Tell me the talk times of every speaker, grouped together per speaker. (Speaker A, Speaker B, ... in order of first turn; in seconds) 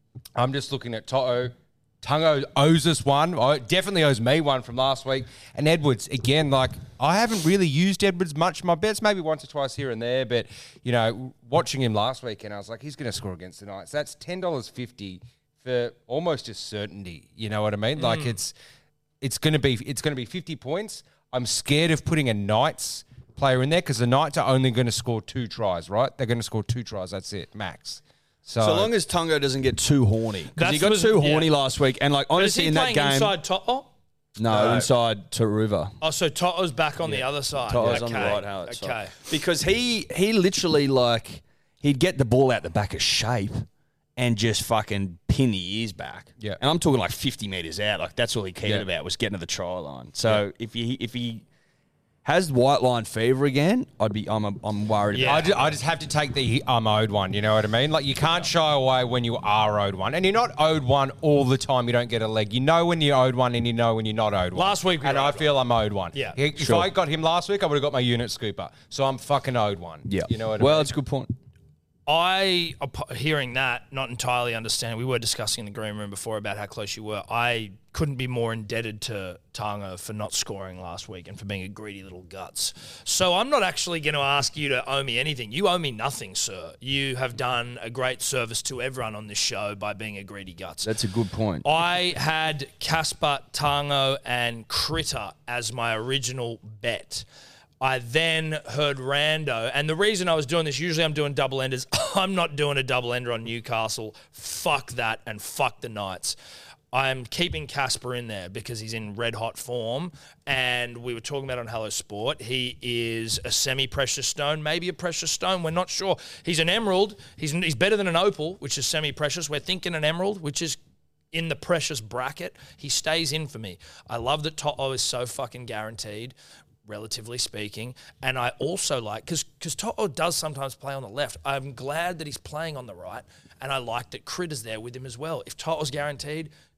Speaker A: 0.4-18.5, 19.2-28.9, 37.8-38.2, 55.2-70.9
Speaker B: 18.0-18.4, 30.6-31.5, 32.4-33.9, 34.5-34.9, 36.0-39.2, 55.1-55.5, 64.5-65.5, 72.1-90.9, 91.6-97.3, 97.8-106.4, 106.9-120.8, 121.3-136.5
Speaker C: 28.6-33.4, 34.4-36.0, 37.0-43.6, 44.2-51.4, 52.2-55.8, 66.6-66.9, 70.1-71.3, 90.8-91.7